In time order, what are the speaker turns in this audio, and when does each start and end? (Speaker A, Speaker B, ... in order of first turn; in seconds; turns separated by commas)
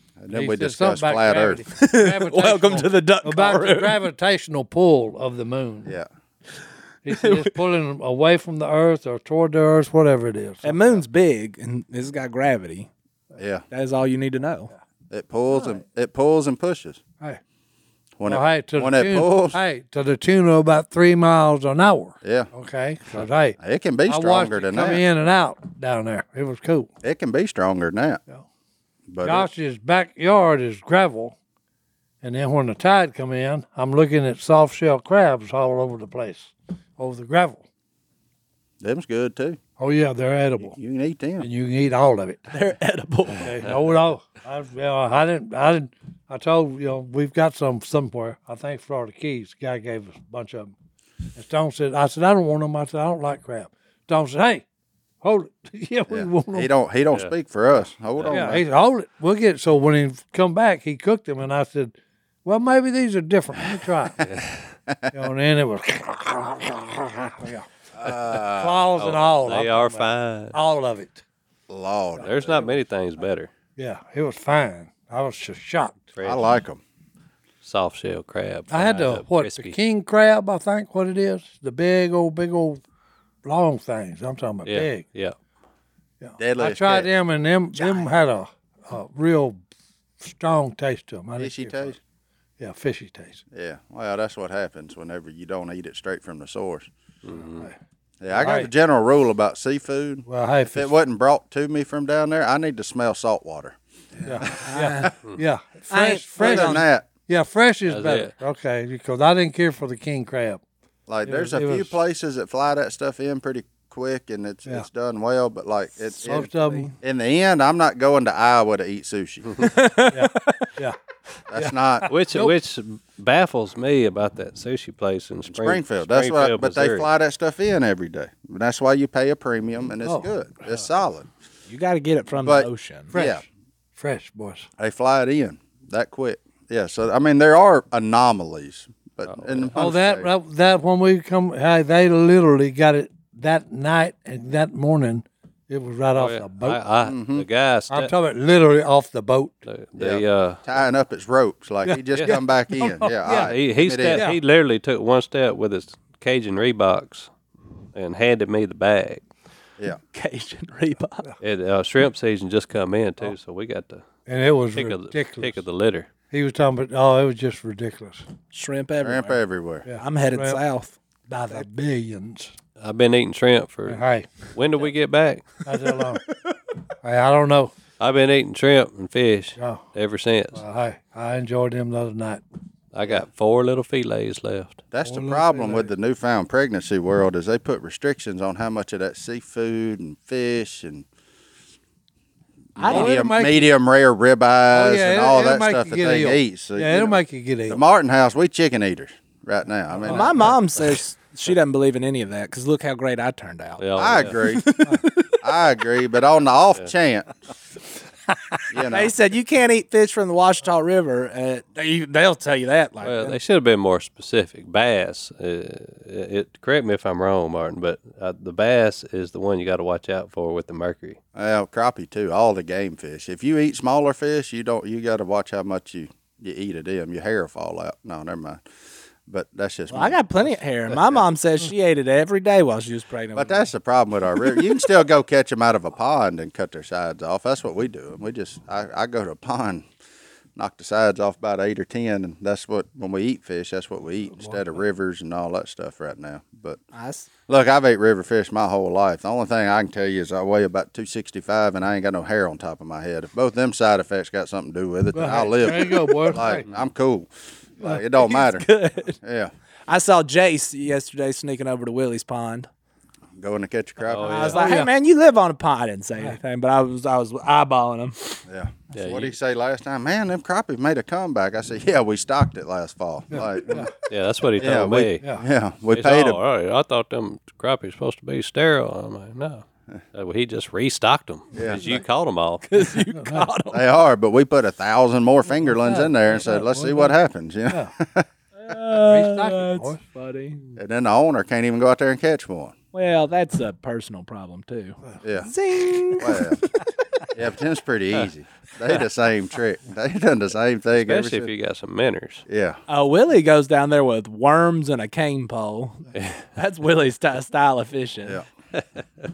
Speaker A: 0.2-1.6, Speaker B: 0.3-5.9, Speaker C: 1.7-4.0, Speaker B: 7.0-11.0, Speaker C: 7.1-7.5, Speaker C: 10.6-12.9, Speaker A: 13.4-13.6, Speaker C: 13.7-14.7, Speaker A: 15.1-17.0, Speaker A: 18.2-19.6, Speaker B: 18.2-26.9, Speaker A: 22.2-22.5, Speaker A: 23.6-25.0, Speaker A: 27.0-28.2, Speaker A: 29.1-29.5, Speaker B: 29.2-31.4, Speaker B: 32.2-37.6, Speaker A: 38.8-39.6, Speaker B: 39.8-40.8, Speaker A: 40.6-41.5, Speaker B: 41.4-42.4, Speaker C: 42.5-43.5, Speaker B: 43.4-50.7, Speaker B: 51.4-54.6, Speaker B: 55.2-56.7, Speaker A: 56.1-58.6, Speaker D: 58.2-58.5, Speaker B: 58.3-61.9, Speaker B: 62.4-64.2, Speaker A: 64.2-65.1, Speaker B: 65.1-67.7, Speaker A: 67.9-68.9, Speaker B: 68.3-71.2, Speaker D: 69.0-70.5, Speaker A: 71.7-72.7, Speaker D: 72.2-73.5, Speaker B: 73.8-76.0, Speaker D: 76.1-76.6, Speaker A: 76.2-76.8, Speaker D: 77.6-79.8, Speaker B: 78.7-82.8, Speaker B: 83.4-85.0, Speaker D: 84.7-85.3, Speaker B: 86.2-89.6, Speaker A: 86.4-87.1, Speaker C: 87.7-88.1, Speaker B: 90.2-91.8, Speaker A: 91.4-92.0, Speaker B: 92.6-93.4, Speaker A: 93.5-96.9, Speaker D: 97.2-97.7, Speaker A: 98.2-103.8, Speaker B: 98.3-98.7, Speaker B: 100.2-100.9, Speaker B: 104.2-110.6, Speaker C: 104.4-105.1, Speaker C: 105.9-106.8, Speaker A: 106.4-107.0, Speaker D: 107.9-108.3, Speaker A: 111.1-116.5, Speaker B: 111.2-112.0, Speaker C: 116.0-116.9, Speaker B: 116.2-116.9, Speaker A: 117.0-119.6, Speaker C: 119.6-120.7, Speaker B: 120.1-121.0, Speaker A: 121.5-122.1, Speaker D: 122.1-127.1, Speaker A: 125.5-131.3, Speaker B: 130.0-130.3, Speaker C: 131.7-133.1, Speaker A: 132.4-133.4, Speaker B: 133.1-133.4, Speaker B: 133.9-134.7, Speaker A: 134.8-140.3, Speaker D: 139.2-139.7, Speaker B: 139.7-146.8, Speaker D: 146.2-148.1, Speaker A: 147.0-147.4, Speaker B: 147.9-149.6, Speaker D: 149.6-150.6, Speaker A: 150.0-154.2, Speaker B: 151.8-153.5, Speaker D: 153.2-157.3, Speaker B: 154.1-154.4, Speaker D: 157.9-159.2, Speaker C: 160.1-161.3, Speaker D: 161.4-164.0, Speaker B: 164.3-165.6, Speaker D: 164.8-166.1, Speaker B: 166.3-168.2, Speaker C: 168.5-169.4, Speaker A: 169.0-169.8, Speaker B: 169.8-170.6, Speaker C: 170.0-170.9, Speaker B: 171.3-172.5, Speaker D: 172.8-174.0, Speaker B: 173.9-174.3, Speaker D: 174.5-175.5, Speaker B: 175.6-176.2, Speaker B: 177.0-177.7, Speaker D: 178.0-180.6, Speaker B: 179.6-179.8, Speaker B: 180.5-182.4, Speaker D: 182.9-184.8, Speaker A: 184.9-191.0, Speaker B: 185.0-185.9, Speaker A: 192.8-200.5, Speaker C: 192.8-193.1, Speaker B: 192.9-193.7, Speaker B: 194.7-197.8, Speaker B: 200.0-200.5, Speaker C: 200.0-205.4, Speaker D: 203.8-204.3, Speaker A: 203.9-204.7, Speaker A: 205.4-207.3, Speaker A: 208.7-209.1, Speaker C: 208.9-213.4, Speaker D: 213.0-221.2, Speaker A: 221.3-228.6, Speaker A: 229.3-230.2, Speaker C: 229.9-233.7, Speaker A: 233.3-239.8, Speaker C: 234.4-234.7, Speaker A: 240.6-246.8, Speaker B: 244.3-244.8, Speaker C: 246.9-247.3, Speaker A: 247.5-258.7, Speaker B: 255.1-256.6, Speaker C: 258.2-259.2, Speaker A: 259.2-259.5, Speaker C: 259.9-262.7, Speaker A: 263.4-264.4, Speaker D: 264.1-264.8, Speaker C: 264.1-268.4, Speaker B: 264.5-264.9, Speaker A: 268.5-273.9, Speaker D: 268.9-269.3, Speaker B: 273.3-273.9, Speaker D: 274.1-275.2, Speaker A: 274.6-276.4, Speaker D: 275.9-282.8, Speaker A: 281.5-281.9, Speaker C: 282.7-283.8, Speaker B: 283.1-283.5, Speaker A: 283.7-288.3, Speaker B: 285.6-287.1, Speaker C: 288.6-290.6, Speaker B: 289.0-290.0, Speaker A: 290.8-292.7, Speaker C: 292.9-296.8, Speaker A: 295.2-295.5, Speaker A: 296.1-296.6, Speaker A: 297.3-301.5, Speaker D: 300.9-302.4, Speaker A: 302.5-302.8, Speaker C: 302.9-308.4, Speaker D: 306.1-306.4